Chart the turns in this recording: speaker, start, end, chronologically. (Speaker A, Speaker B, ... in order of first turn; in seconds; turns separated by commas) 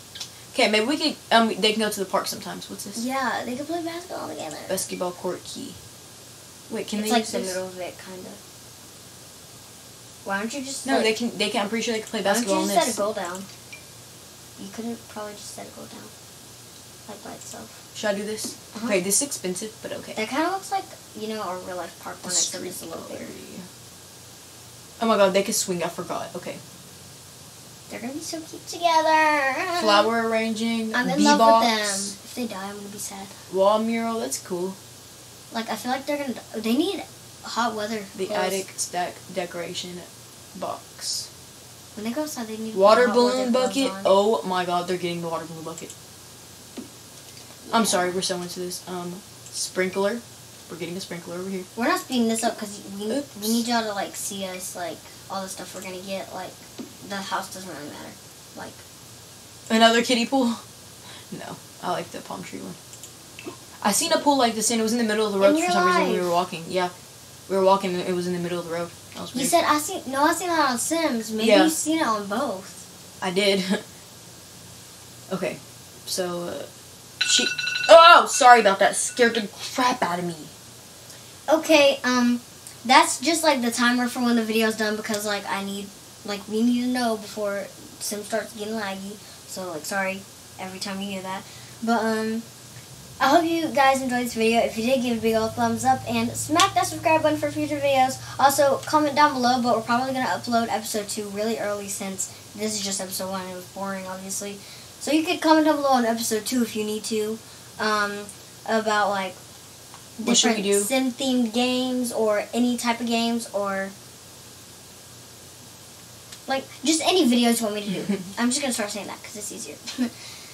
Speaker A: 0.5-3.0, Speaker B: 3.0-4.8, Speaker A: 4.7-5.8, Speaker A: 6.7-7.6, Speaker B: 7.0-8.4, Speaker B: 10.2-11.1, Speaker A: 10.8-13.0, Speaker B: 12.2-13.5, Speaker B: 14.6-16.1, Speaker B: 17.1-17.8, Speaker A: 17.9-20.2, Speaker B: 18.7-19.0, Speaker B: 20.2-23.4, Speaker A: 22.2-23.7, Speaker A: 25.0-26.6, Speaker B: 27.9-30.1, Speaker A: 29.8-32.1, Speaker B: 30.9-33.4, Speaker A: 33.5-34.8, Speaker B: 35.5-38.6, Speaker A: 38.1-41.3, Speaker B: 42.0-44.1, Speaker A: 42.7-45.9, Speaker B: 47.7-48.2, Speaker A: 47.7-51.7, Speaker B: 51.8-58.8, Speaker A: 53.1-53.6, Speaker A: 59.7-60.6, Speaker A: 61.3-62.8, Speaker A: 63.8-66.9, Speaker B: 65.4-66.4, Speaker A: 67.5-69.6, Speaker B: 69.3-72.8, Speaker A: 71.4-71.7, Speaker A: 73.2-73.8, Speaker A: 75.3-76.7, Speaker A: 77.2-80.5, Speaker B: 81.5-92.4, Speaker B: 93.2-109.4, Speaker B: 110.2-113.9, Speaker A: 110.2-110.9, Speaker B: 116.5-120.3